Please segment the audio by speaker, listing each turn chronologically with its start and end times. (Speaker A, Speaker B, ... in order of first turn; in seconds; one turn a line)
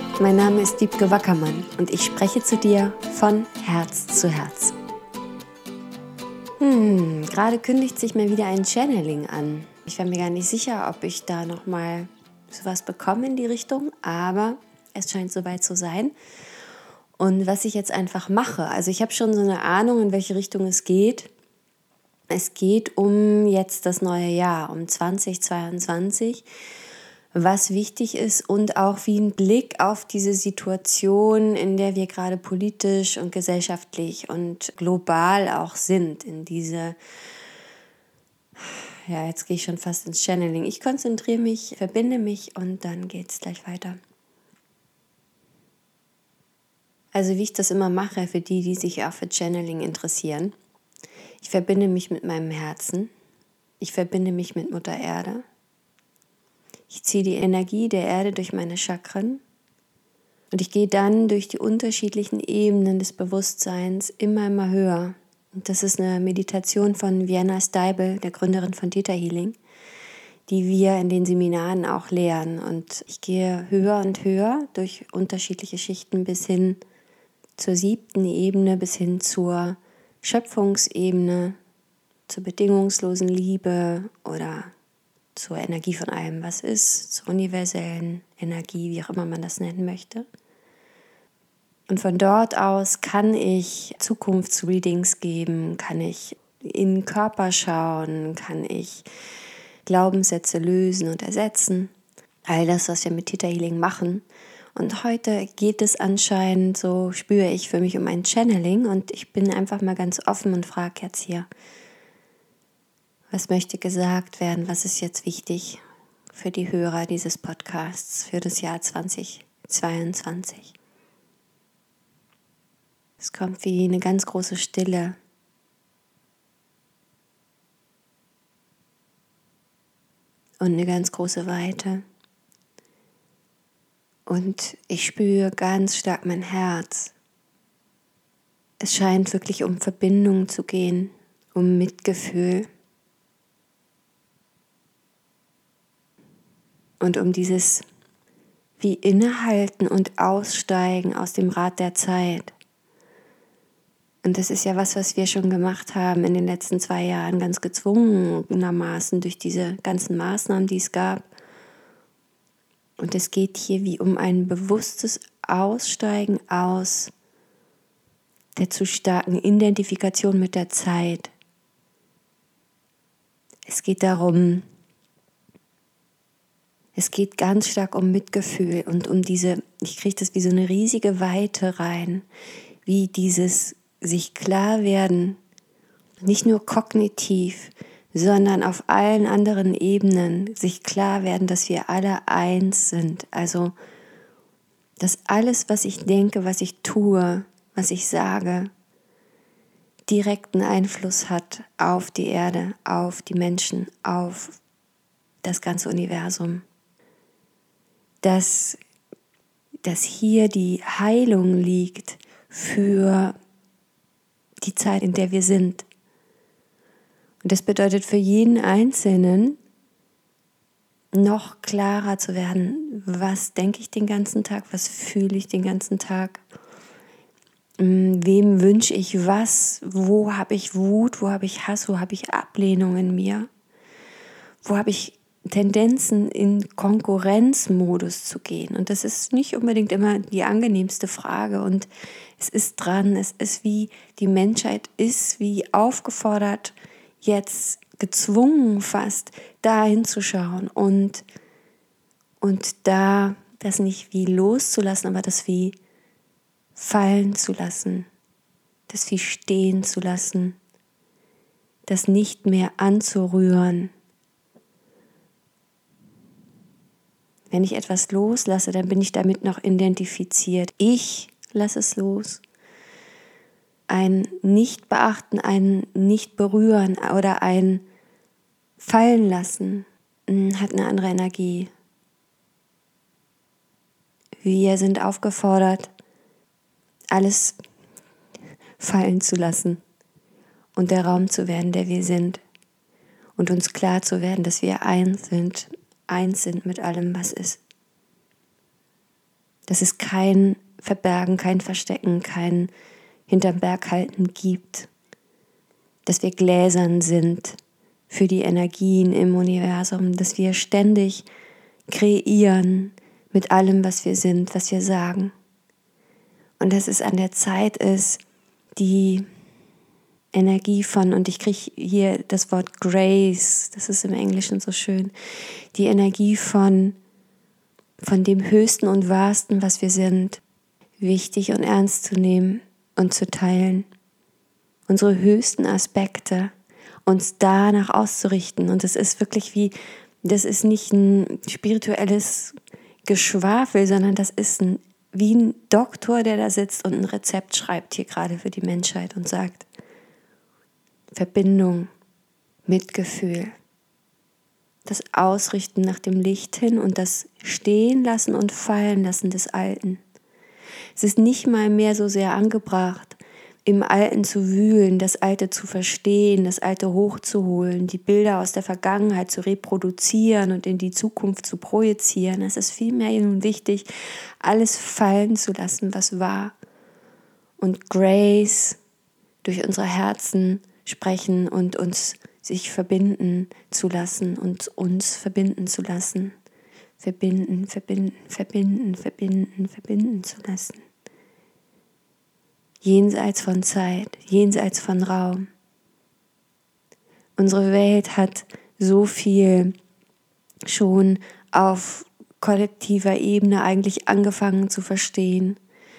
Speaker A: 0.2-4.8
Speaker A: 6.6-16.1
Speaker A: 17.2-21.3
Speaker A: 22.3-26.5
Speaker A: 27.3-37.0
Speaker A: 38.6-44.0
Speaker A: 47.1-50.5
Speaker A: 51.4-53.1
Speaker A: 53.8-55.4
Speaker A: 56.9-59.4
Speaker A: 60.5-69.6
Speaker A: 70.5-76.8
Speaker A: 77.6-81.6
Speaker A: 82.3-84.7
Speaker A: 85.3-90.3
Speaker A: 91.9-99.1
Speaker A: 99.9-101.9
Speaker A: 102.5-111.5
Speaker A: 113.3-120.7
Speaker A: 123.2-125.2
Speaker A: 130.6-132.0
Speaker A: 134.3-137.2
Speaker A: 138.8-142.7
Speaker A: 147.0-147.8
Speaker A: 148.8-152.5
Speaker A: 154.2-161.3
Speaker A: 163.0-167.1
Speaker A: 168.6-171.3
Speaker A: 173.7-174.7
Speaker A: 177.0-182.3
Speaker A: 182.9-185.4
Speaker A: 186.2-193.7
Speaker A: 195.0-198.7
Speaker A: 200.1-204.6
Speaker A: 205.4-206.7
Speaker A: 208.2-208.8
Speaker A: 209.8-213.3
Speaker A: 214.6-215.9
Speaker A: 217.4-219.6
Speaker A: 221.1-226.4
Speaker A: 227.8-233.5
Speaker A: 234.6-251.2
Speaker A: 252.4-255.8
Speaker A: 256.8-258.1
Speaker A: 258.9-260.6
Speaker A: 261.9-263.9
Speaker A: 267.5-272.4
Speaker A: 273.9-277.8
Speaker A: 278.8-281.7
Speaker A: 284.4-285.9
Speaker A: 287.1-287.6
Speaker A: 288.8-289.8
Speaker A: 290.8-292.4
Speaker A: 293.4-297.6
Speaker A: 299.7-302.7
Speaker A: 303.3-304.9
Speaker A: 306.1-307.6
Speaker A: 308.1-311.3
Speaker A: 311.9-315.3
Speaker A: 316.6-318.2
Speaker A: 318.8-319.3
Speaker A: 320.3-325.1
Speaker A: 325.7-327.0
Speaker A: 328.0-330.4
Speaker A: 331.0-333.9
Speaker A: 334.9-336.5
Speaker A: 337.1-349.7
Speaker A: 351.1-351.9
Speaker A: 352.7-353.6
Speaker A: 354.9-360.0
Speaker A: 361.0-373.9
Speaker A: 374.4-376.6
Speaker A: 377.6-378.8
Speaker A: 379.4-386.4
Speaker A: 387.0-390.8
Speaker A: 392.8-395.5
Speaker A: 397.4-399.7
Speaker A: 400.7-405.6